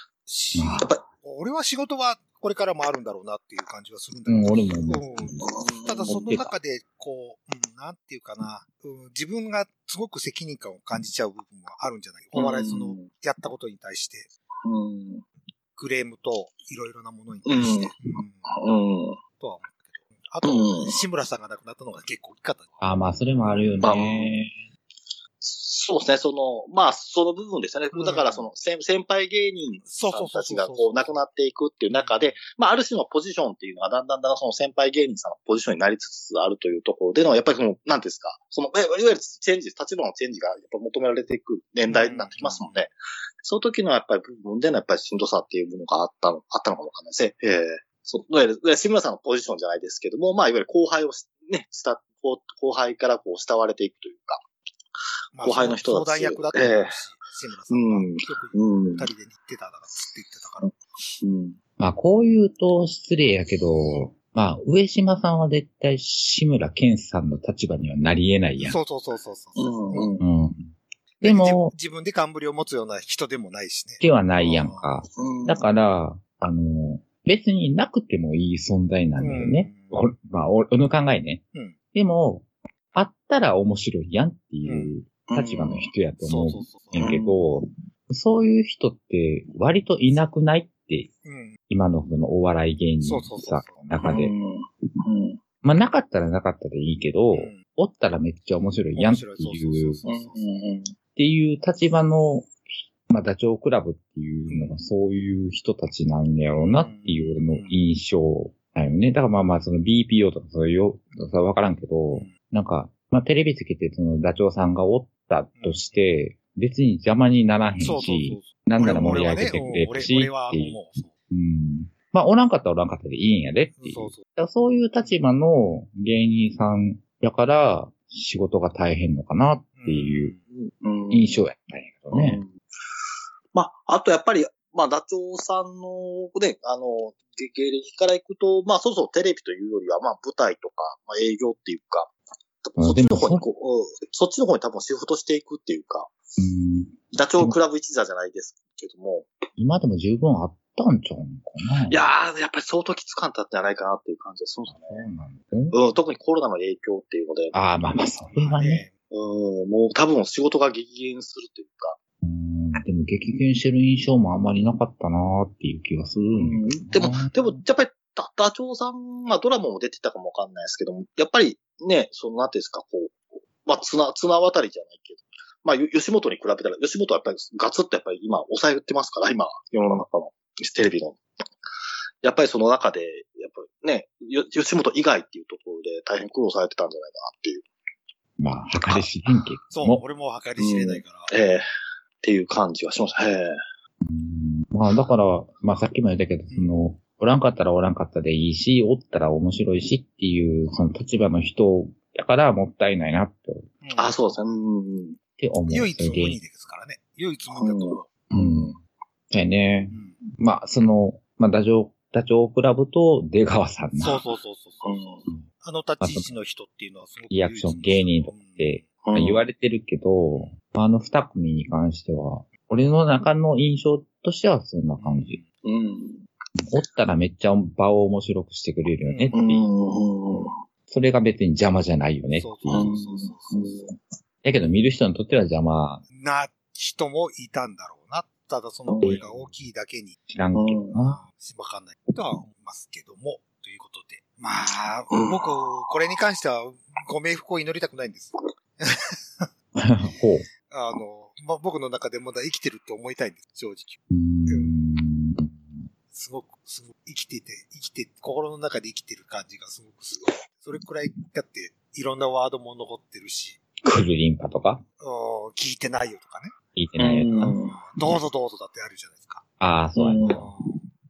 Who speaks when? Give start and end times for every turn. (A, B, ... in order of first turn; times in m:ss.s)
0:00.3-0:14.3 A
0:00.6-0:00.9 B
0:04.3-0:05.4 B
0:05.4-0:06.2 C
0:06.1-0:06.5 B
0:12.4-0:13.1 C
0:14.6-0:15.2 C
0:15.8-0:18.5 A
0:17.5-0:19.2 C
0:19.4-0:22.8 A
0:20.4-0:21.0 C
0:22.8-0:24.5 B
0:23.8-0:24.3 C
0:25.4-0:54.4 C
0:27.9-0:28.5 A
0:29.9-0:31.2 A
0:31.9-0:32.4 A
0:41.9-0:42.8 A
0:55.3-1:00.7 A
0:55.4-0:57.0 C
0:57.7-0:59.1 C
1:01.2-1:01.6 C
1:01.8-1:08.8 B
1:08.6-1:10.1 A
1:09.6-1:10.2 C
1:10.2-1:11.7 B
1:11.2-1:14.9 A
1:14.0-1:31.1 B
1:15.2-1:15.7 C
1:19.2-1:20.0 A
1:24.6-1:25.0 A
1:25.3-1:25.9 C
1:26.3-1:27.1 A
1:27.0-1:27.4 C
1:31.2-1:31.6 A
1:31.7-1:34.3 B
1:33.0-1:33.8 A
1:34.0-1:35.4 C
1:35.6-1:40.0 B
1:37.3-1:37.6 A
1:39.0-1:40.5 A
1:40.0-1:40.9 C
1:41.2-2:10.4 B
1:44.5-1:44.8 A
1:46.6-1:47.8 A
1:55.6-1:55.9 A
1:57.8-2:01.1 A
2:03.8-2:04.2 A
2:09.8-2:10.4 A
2:10.6-2:11.5 C
2:11.1-2:12.4 B
2:12.1-2:12.5 C
2:13.5-2:22.1 C
2:22.6-2:26.1 C
2:22.8-2:23.4 B
2:26.4-2:27.6 B
2:27.1-2:29.3 C
2:29.6-2:32.0 B
2:31.9-2:35.1 C
2:34.7-2:35.8 B
2:35.7-2:37.6 C
2:37.5-2:38.8 B
2:38.4-2:38.9 A
2:39.1-2:42.0 C
2:42.2-2:47.6 B
2:46.4-3:01.2 C
3:02.2-3:07.7 C
3:08.4-3:10.0 B
3:09.7-3:11.3 A
3:10.6-3:11.7 C
3:12.2-3:13.6 C
3:14.0-3:23.7 B
3:16.5-3:16.8 A
3:23.8-3:24.2 A
3:24.0-3:25.2 C
3:25.4-3:26.4 B
3:25.7-3:28.1 A
3:27.5-3:28.0 C
3:28.3-3:28.8 B
3:29.3-3:34.2 B
3:34.0-3:38.8 A
3:34.8-3:35.3 C
3:36.0-3:36.3 B
3:37.3-3:45.4 B
3:39.0-3:39.4 C
3:45.0-3:45.4 A
3:45.6-3:46.2 C
3:46.6-3:49.6 B
3:49.0-3:49.4 A
3:49.3-3:50.5 C
3:50.9-3:52.9 B
3:52.4-3:53.8 A
3:52.7-3:54.0 C
3:54.4-3:56.0 B
3:56.1-4:00.2 A
3:58.9-3:59.2 C
3:59.0-3:59.6 B
4:00.3-4:01.2 B
4:00.6-4:01.0 C
4:01.0-4:09.5 A
4:05.1-4:05.4 C
4:09.8-4:10.5 B
4:10.7-4:14.8 A
4:14.1-4:15.8 B
4:16.1-4:23.6 A
4:23.8-4:24.8 B
4:25.0-4:26.5 A
4:26.8-4:27.6 B
4:27.0-4:27.8 C
4:27.4-4:29.4 A
4:29.6-4:30.5 B
4:30.0-4:30.5 C
4:30.2-4:30.6 A